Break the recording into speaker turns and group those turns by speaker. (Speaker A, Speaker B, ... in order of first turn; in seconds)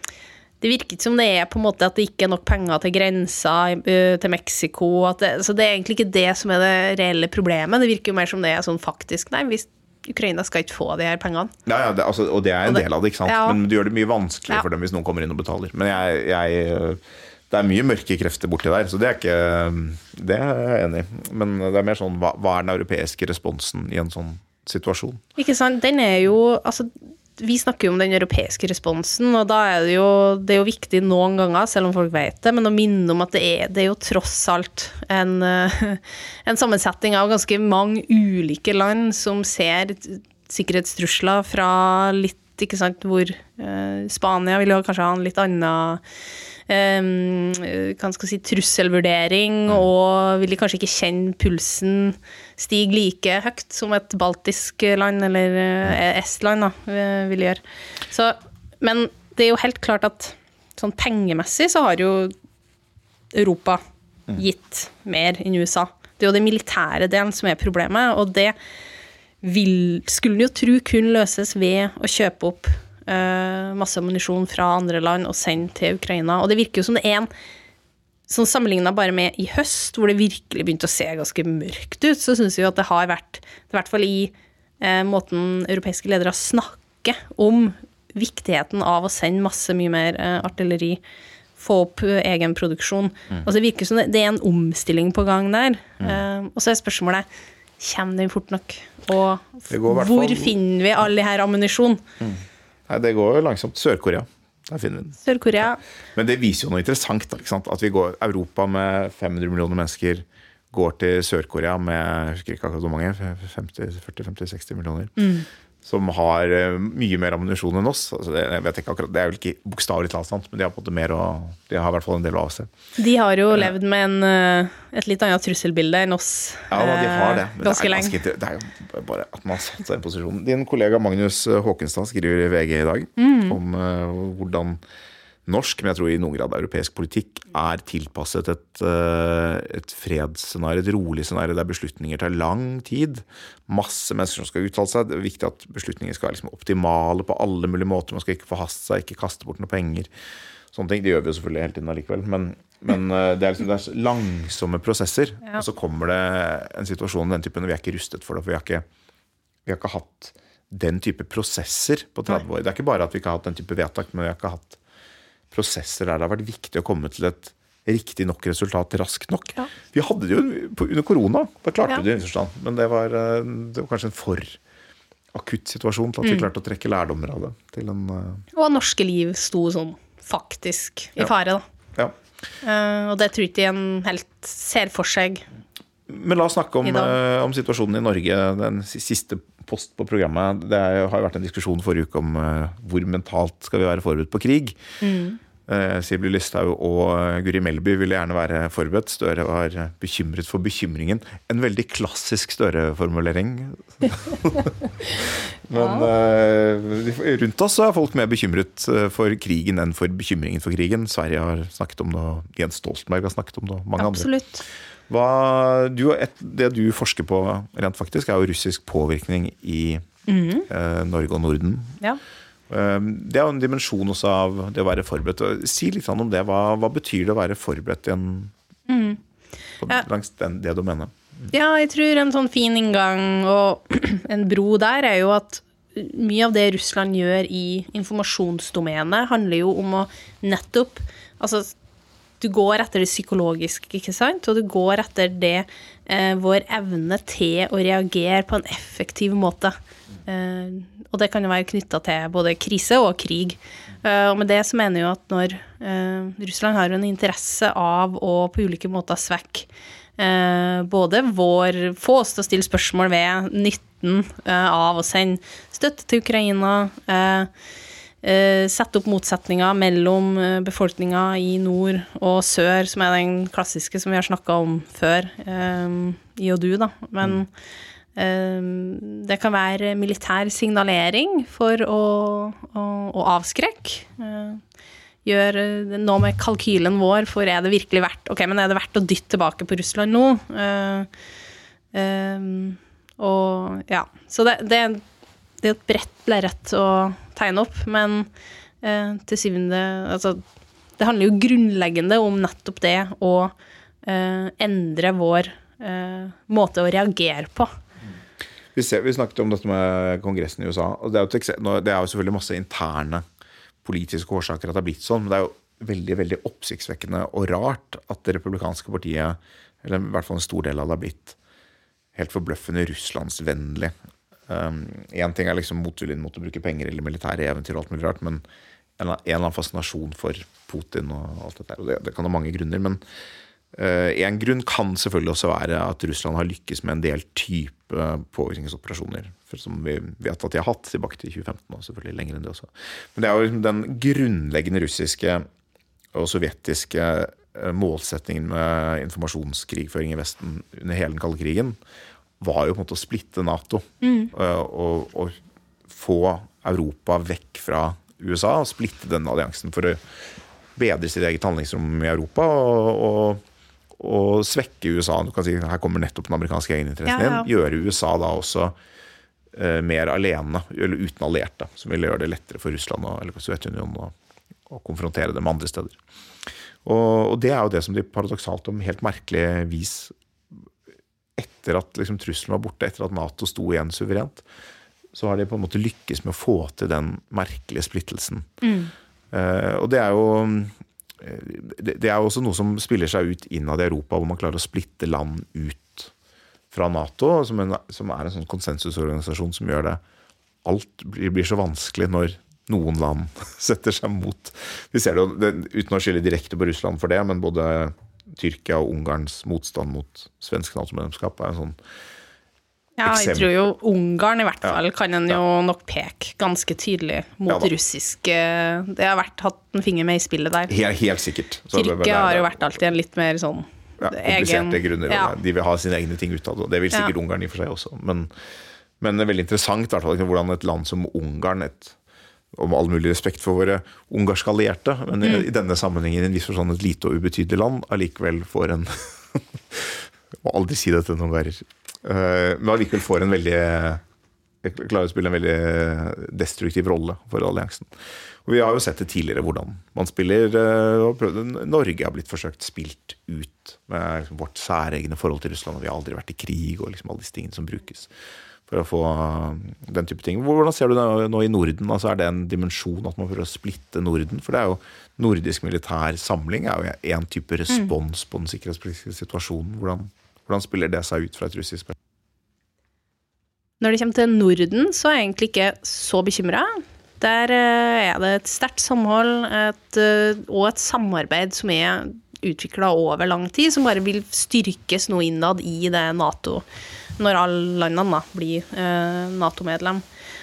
Speaker A: 0.6-11.5, 12.7-13.6, 25.4-46.0, 46.7-62.4, 63.3-63.8, 64.3-68.5, 69.4-77.3, 78.3-91.0, 91.6-97.3, 97.8-102.0, 105.2-105.8, 115.2-115.5, 123.0-128.2, 133.2-133.6, 178.5-181.6, 182.6-185.5, 186.8-187.2, 195.0-195.4, 214.0-214.6, 220.3-220.7, 228.9-229.2, 231.5-241.7, 242.4-249.8, 250.3-267.5, 268.2-277.5, 278.2-284.6, 285.2-291.1, 291.9-295.0, 295.6-298.3, 298.8-300.4, 301.0-307.7, 354.0-354.3, 367.1-367.5, 388.6-388.9, 413.0-420.7, 421.7-425.4, 473.8-486.6, 487.2-490.0
Speaker B: 11.7-25.2, 99.7-100.6, 102.2-105.2, 106.2-115.1, 115.8-122.7, 126.7-134.8, 135.5-150.1, 150.7-158.8, 159.7-164.8, 165.5-174.6, 175.3-178.4, 186.1-194.8, 195.7-214.3, 215.1-220.0, 220.7-222.0, 222.7-228.5, 229.8-231.5, 308.8-313.2, 313.8-321.4, 322.1-323.9, 324.5-328.4, 329.0-333.0, 333.7-345.5, 346.1-351.8, 352.4-355.4, 355.9-360.0, 360.8-363.4, 364.0-368.8, 369.5-374.1, 374.7-376.0, 376.9-380.6, 381.4-384.4, 385.1-388.5, 389.3-396.1, 396.7-400.0, 400.6-411.8, 413.1-413.5, 420.7-422.8, 424.0-428.3, 429.0-432.0, 432.5-444.0, 444.6-458.1, 458.7-471.9